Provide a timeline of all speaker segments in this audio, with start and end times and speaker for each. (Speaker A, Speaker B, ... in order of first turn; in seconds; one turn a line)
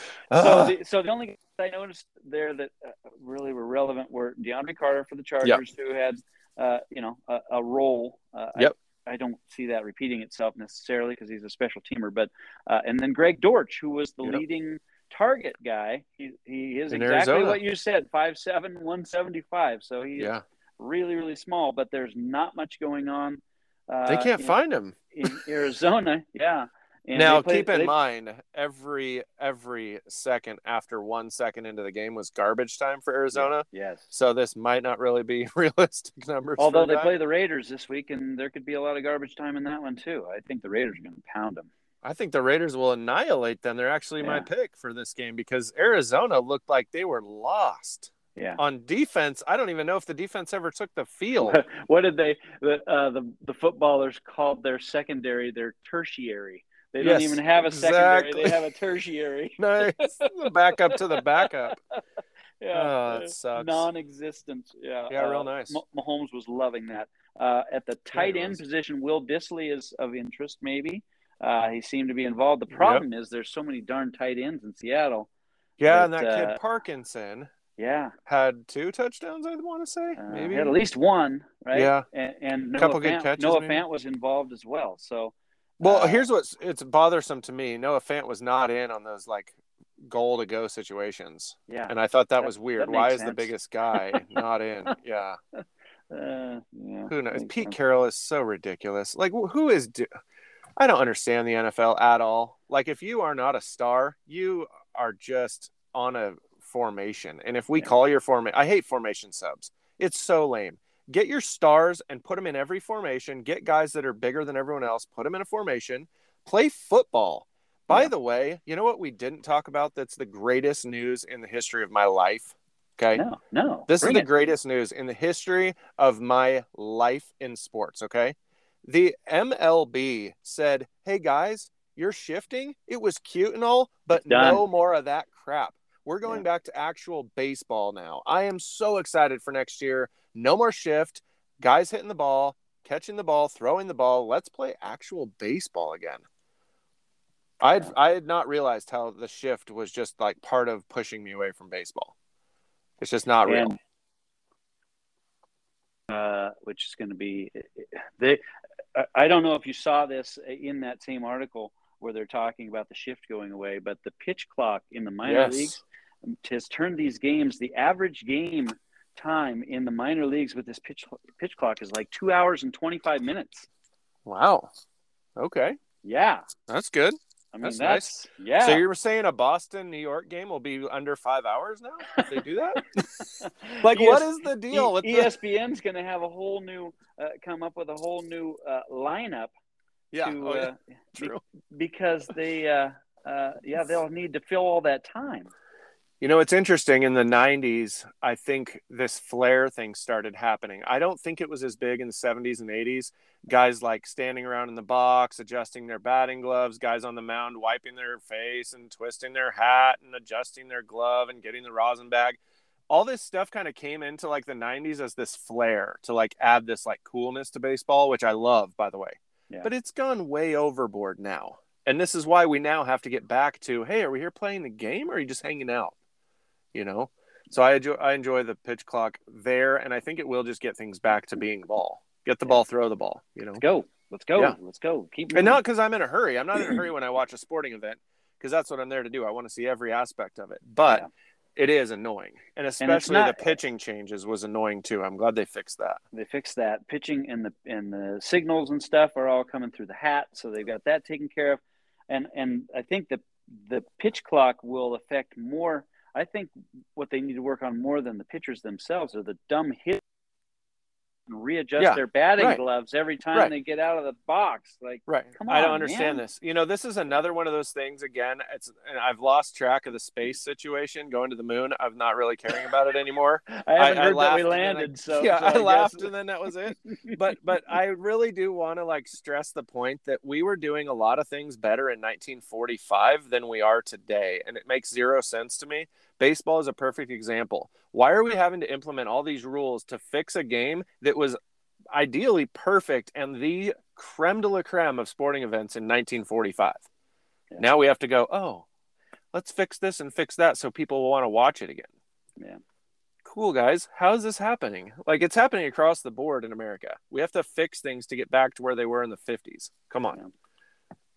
Speaker A: 0.3-0.7
Speaker B: 0.3-24.6
Speaker A: 16.9-17.6
Speaker A: 20.1-20.4
Speaker A: 24.1-25.4
Speaker B: 25.1-27.9
Speaker A: 27.1-37.1
Speaker B: 33.3-34.1
Speaker B: 36.6-41.7
Speaker A: 42.0-51.6
Speaker B: 44.2-44.5
Speaker B: 51.4-60.3
Speaker A: 57.0-58.6
Speaker A: 59.6-61.8
Speaker B: 60.8-61.7
Speaker B: 62.6-75.3
Speaker A: 62.7-63.9
Speaker A: 65.1-65.8
Speaker A: 68.1-68.6
Speaker A: 72.7-73.0
Speaker A: 75.8-77.5
Speaker B: 75.8-76.6
Speaker B: 77.8-78.1
Speaker A: 78.2-80.7
Speaker B: 80.2-86.2
Speaker A: 81.7-82.0
Speaker A: 82.8-83.8
Speaker A: 85.8-95.4
Speaker B: 91.7-94.3
Speaker B: 96.1-97.8
Speaker A: 97.1-100.1
Speaker A: 100.8-123.2
Speaker B: 123.1-124.3
Speaker A: 123.9-146.2
Speaker B: 134.1-134.6
Speaker A: 147.6-152.1
Speaker A: 153.0-153.7
Speaker B: 153.4-153.8
Speaker B: 156.1-158.4
Speaker B: 158.9-173.7
Speaker A: 165.2-165.8
Speaker A: 174.2-174.7
Speaker A: 175.4-175.8
Speaker B: 176.0-176.5
Speaker A: 176.7-183.3
Speaker B: 177.5-178.8
Speaker B: 182.1-189.5
Speaker A: 183.8-185.3
Speaker A: 190.1-191.4
Speaker B: 190.2-195.5
Speaker A: 196.2-212.4
Speaker A: 212.9-225.9
Speaker A: 226.7-233.6
Speaker B: 233.6-235.6
Speaker A: 235.3-246.0
Speaker B: 242.8-243.5
Speaker B: 246.1-260.0
Speaker B: 261.3-266.2
Speaker A: 261.8-262.6
Speaker A: 265.1-291.4
Speaker B: 273.5-276.1
Speaker B: 276.9-277.3
Speaker A: 291.9-296.8
Speaker A: 297.6-298.6
Speaker A: 299.3-301.9
Speaker A: 303.2-310.2